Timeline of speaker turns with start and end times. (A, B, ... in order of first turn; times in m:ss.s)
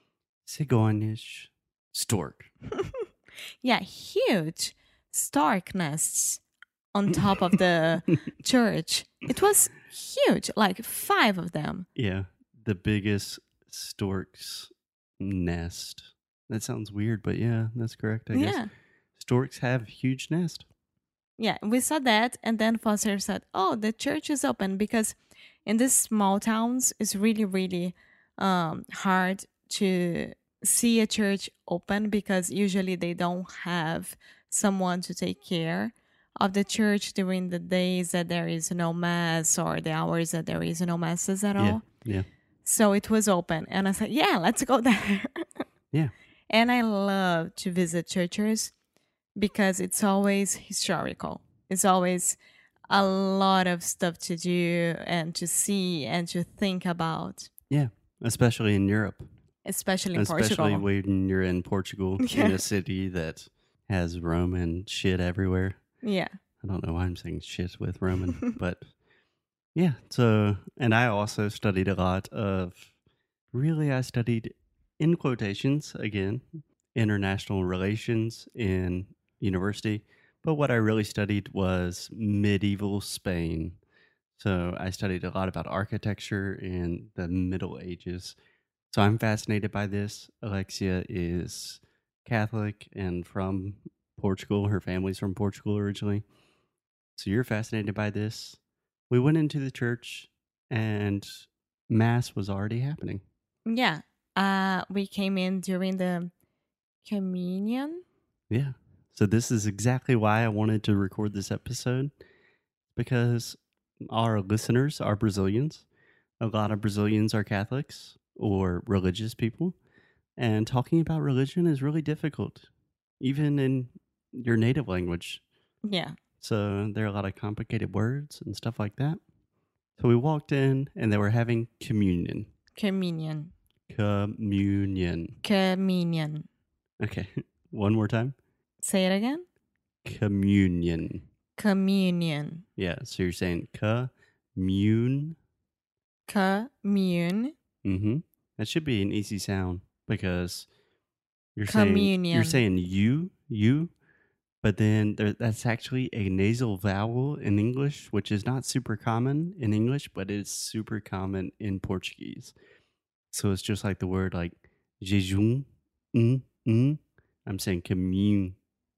0:00.4-0:02.5 A
0:03.6-0:06.4 B
0:06.9-0:11.9 B
0:12.0-0:18.6 A
0:18.3-0:18.7 B
0:19.2-0:20.7 A
0:21.4-0:41.8 B
0:41.6-0:42.3 A
0:42.6-0:45.6 B
0:46.5-0:48.7 B
0:49.4-0:57.5 B
0:57.7-0:59.3 A
0:59.6-1:00.8 B
1:00.1-1:05.8 A
1:02.2-1:02.6 B
1:06.0-1:06.3 B
1:06.6-1:08.9 A
1:09.8-1:12.9 A
1:13.5-1:23.8 A
1:24.4-1:28.4 A
1:28.9-1:36.2 A
1:37.2-1:38.6 A
1:39.1-1:43.2 A
1:43.7-1:46.3 B
1:47.0-1:48.0 B
1:48.5-1:52.1 A
1:52.9-1:53.6 A
1:54.1-1:55.9 A
1:56.4-1:59.8 A
2:00.4-2:02.7 A
2:03.2-2:05.4 A
2:05.8-2:06.1 B
2:06.4-2:09.2 A
2:10.0-2:12.5 A
2:12.8-2:13.5 B
2:13.9-2:15.4 A
2:15.4-2:16.5 B
2:17.0-2:18.4 A
2:18.8-2:19.4 B
2:20.0-2:21.2 A
2:21.6-2:22.6 B
2:22.8-2:25.4 A
2:26.3-2:27.5 B
2:27.8-2:30.7 A
2:31.6-2:33.9 A
2:31.7-2:32.6 B
2:34.6-2:42.5 A
2:43.3-2:48.6 A